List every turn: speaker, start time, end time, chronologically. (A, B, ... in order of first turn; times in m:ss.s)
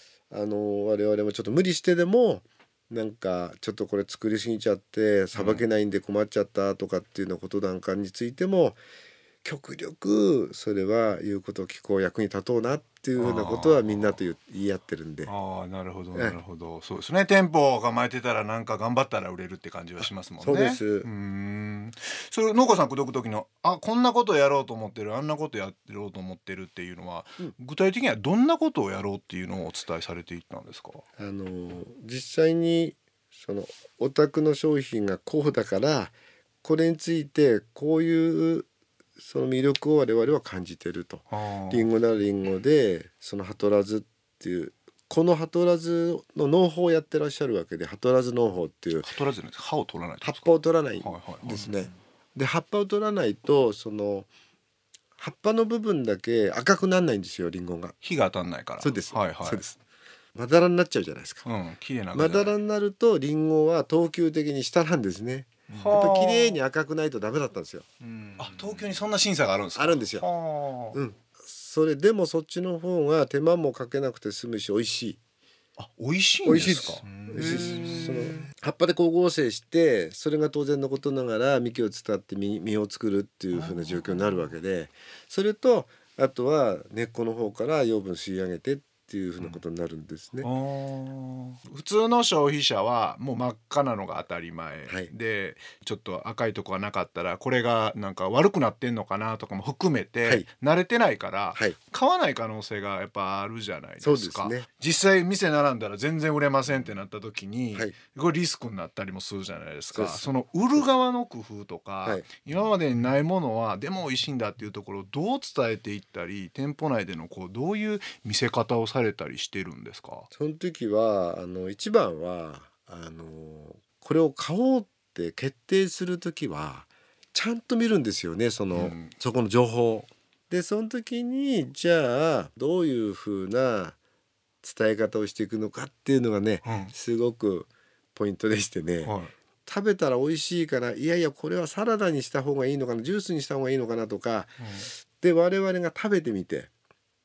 0:00.3-0:08.8 A
0:05.3-0:05.6 B
0:09.4-0:15.3 A
0:13.2-0:14.2 B
0:15.3-0:31.0 B
0:20.4-0:21.1 A
0:31.2-0:38.7 A
0:39.2-0:49.1 A
0:41.3-0:41.9 B
0:49.0-0:51.7 B
0:50.2-0:54.3 A
0:55.2-0:57.9 A
0:58.0-0:59.6 B
0:58.8-0:59.8 A
1:00.3-1:01.4 A
1:01.4-1:02.5 B
1:02.1-1:07.9 A
1:05.7-1:06.6 B
1:08.4-1:11.0 B
1:09.8-1:10.3 A
1:10.9-1:15.2 A
1:15.8-1:18.5 B
1:16.4-1:30.5 A
1:23.5-1:24.0 B
1:30.4-2:00.3 B
1:44.0-1:44.7 A
1:49.9-1:50.8 A
2:00.3-2:14.0 A
2:08.7-2:09.1 B
2:14.6-2:19.1 A
2:16.6-2:16.9 B
2:19.0-2:19.3 B
2:19.6-2:24.6 A
2:24.6-2:24.9 B
2:25.2-2:26.7 A